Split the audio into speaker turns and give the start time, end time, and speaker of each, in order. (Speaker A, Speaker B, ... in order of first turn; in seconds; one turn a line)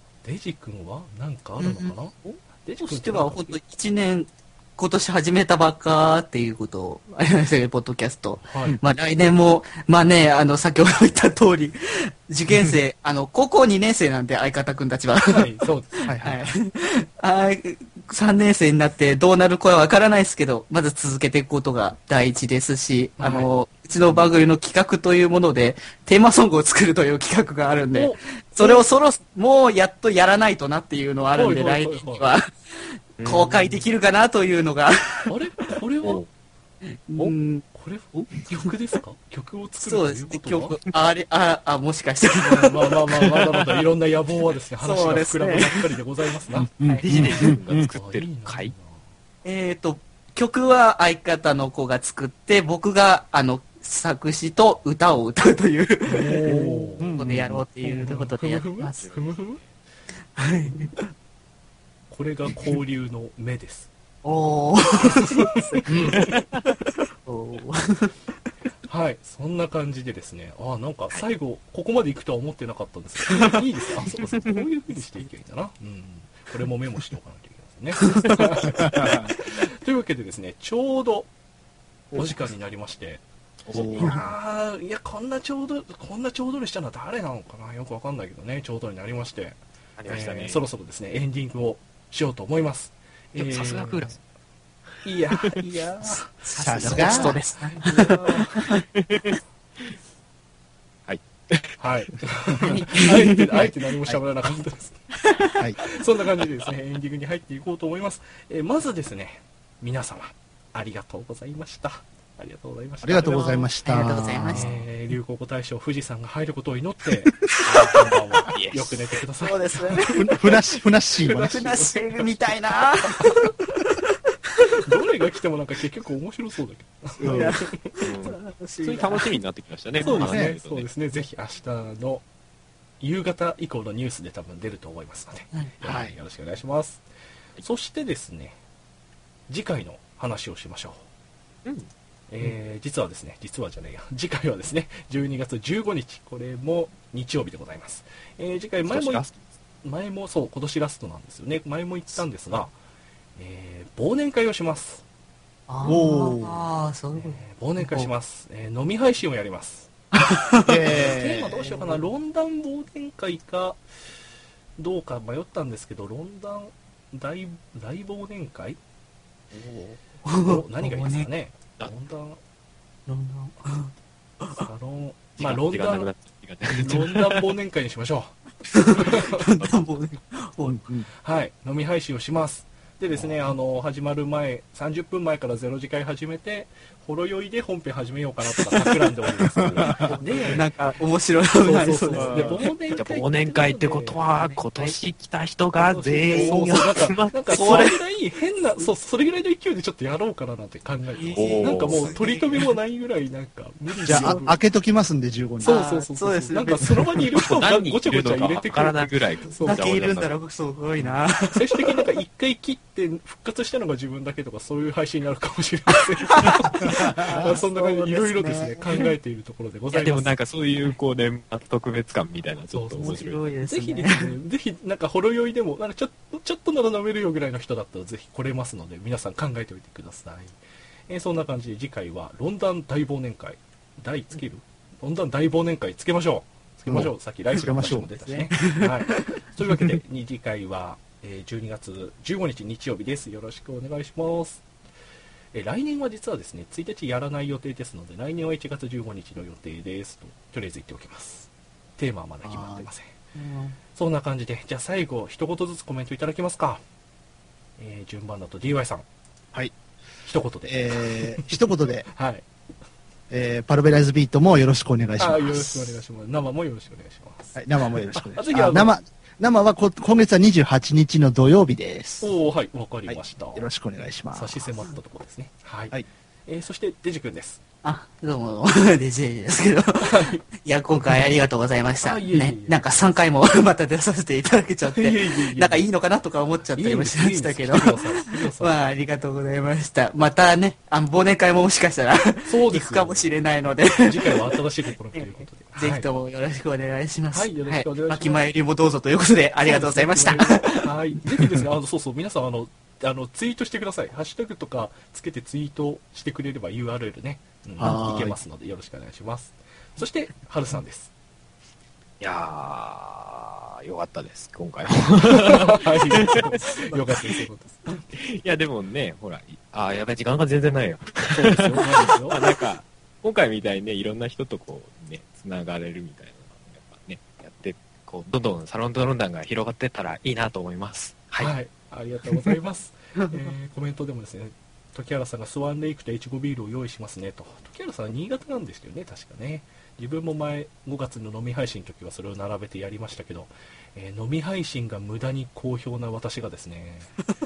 Speaker A: 0.2-3.6
Speaker B: 1.6-1.9
Speaker B: 2.8-15.5
Speaker A: 8.4-8.8
Speaker A: 15.3-16.1
Speaker C: 16.1-16.5
Speaker B: 16.1-35.3
Speaker A: 23.2-23.5
Speaker A: 27.9-28.9
Speaker A: 31.3-32.3
Speaker D: 33.2-33.5
Speaker A: 35.3-36.2
Speaker B: 36.8-37.6
Speaker A: 37.1-40.8
Speaker B: 38.3-38.7
Speaker B: 39.8-42.8
Speaker A: 42.4-49.0
Speaker B: 44.8-45.9
Speaker C: 46.8-47.9
Speaker B: 46.8-47.6
Speaker D: 47.1-48.7
Speaker B: 49.4-59.0
Speaker A: 56.0-57.2
Speaker C: 57.0-57.6
Speaker A: 57.8-59.6
Speaker B: 60.3-61.0
Speaker A: 62.1-63.9
Speaker B: 64.2-68.2
Speaker A: 64.9-66.3
Speaker C: 65.9-66.2
Speaker A: 68.8-81.3
Speaker B: 73.3-73.6
Speaker B: 78.0-78.6
Speaker C: 78.7-79.3
Speaker A: 82.1-94.2
Speaker D: 83.7-84.2
Speaker C: 83.7-84.2
Speaker D: 90.0-90.6
Speaker D: 93.3-94.2
Speaker A: 95.0-98.7
Speaker B: 96.0-98.8
Speaker C: 96.6-97.4
Speaker D: 99.0-99.3
Speaker D: 101.1-101.8
Speaker A: 101.8-105.1
Speaker B: 102.6-103.7
Speaker B: 105.2-105.7
Speaker A: 105.8-113.7
Speaker C: 113.0-114.8
Speaker B: 113.2-114.7
Speaker A: 114.5-120.6
Speaker C: 117.6-118.1
Speaker D: 118.5-119.0
Speaker B: 119.4-120.2
Speaker C: 120.0-121.6
Speaker A: 121.2-122.3
Speaker B: 121.3-124.0
Speaker A: 123.2-123.5
Speaker A: 124.8-127.8
Speaker C: 127.2-127.6
Speaker B: 127.2-129.3
Speaker D: 128.0-130.9
Speaker A: 130.0-132.2
Speaker B: 130.0-130.3
Speaker C: 130.2-130.5
Speaker A: 133.0-137.0
Speaker C: 135.8-136.1
Speaker A: 137.6-138.6
Speaker A: 139.5-141.1
Speaker D: 141.6-141.9
Speaker A: 142.3-149.3
Speaker D: 148.9-149.3
Speaker A: 149.8-152.7
Speaker A: 153.3-155.0
Speaker B: 155.7-158.1
Speaker C: 155.8-156.6
Speaker A: 157.1-159.9
Speaker B: 160.1-160.9
Speaker C: 160.6-161.7
Speaker A: 160.8-163.8
Speaker A: 164.8-168.8
Speaker A: 169.5-172.4
Speaker B: 170.2-171.3
Speaker B: 173.1-174.7
Speaker A: 174.6-176.1
Speaker D: 175.4-177.2
Speaker A: 176.7-179.5
Speaker B: 178.7-180.8
Speaker D: 179.6-179.9
Speaker C: 180.6-181.1
Speaker A: 181.1-190.7
Speaker C: 189.8-190.1
Speaker B: 189.9-192.6
Speaker A: 191.6-194.2
Speaker C: 192.2-192.6
Speaker D: 192.9-197.9
Speaker B: 194.3-195.0
Speaker A: 195.7-204.6
Speaker B: 196.2-196.9
Speaker B: 197.5-198.0
Speaker B: 201.1-202.7
Speaker D: 201.3-202.1
Speaker C: 204.0-205.8
Speaker A: 205.6-209.8
Speaker B: 205.6-207.3
Speaker D: 207.4-210.3
Speaker B: 209.6-212.0
Speaker D: 211.0-211.2
Speaker A: 211.5-220.3
Speaker B: 216.2-219.0
Speaker C: 216.9-217.5
Speaker D: 219.9-223.5
Speaker A: 222.7-244.6
Speaker B: 223.0-224.4
Speaker C: 236.9-238.1
Speaker B: 237.8-239.3
Speaker A: 245.5-253.1
Speaker C: 252.4-252.9
Speaker B: 253.3-253.8
Speaker A: 253.9-256.8
Speaker A: 257.8-259.0
Speaker A: 260.2-262.4
Speaker C: 260.6-262.1
Speaker C: 263.3-266.0
Speaker A: 265.2-269.0
Speaker C: 267.6-272.3
Speaker A: 272.2-273.7
Speaker C: 273.1-274.6
Speaker A: 274.3-277.6
Speaker B: 277.8-294.5
Speaker A: 280.0-280.4
Speaker A: 282.0-282.8
Speaker A: 284.9-285.9
Speaker A: 286.7-288.8
Speaker A: 292.4-293.3
Speaker A: 294.0-296.1
Speaker B: 295.1-300.9
Speaker A: 297.3-298.4
Speaker A: 299.6-311.1
Speaker C: 307.8-308.4
Speaker D: 312.2-316.8
Speaker A: 315.2-318.1
Speaker D: 318.1-331.5
Speaker A: 321.3-322.6
Speaker A: 331.4-347.1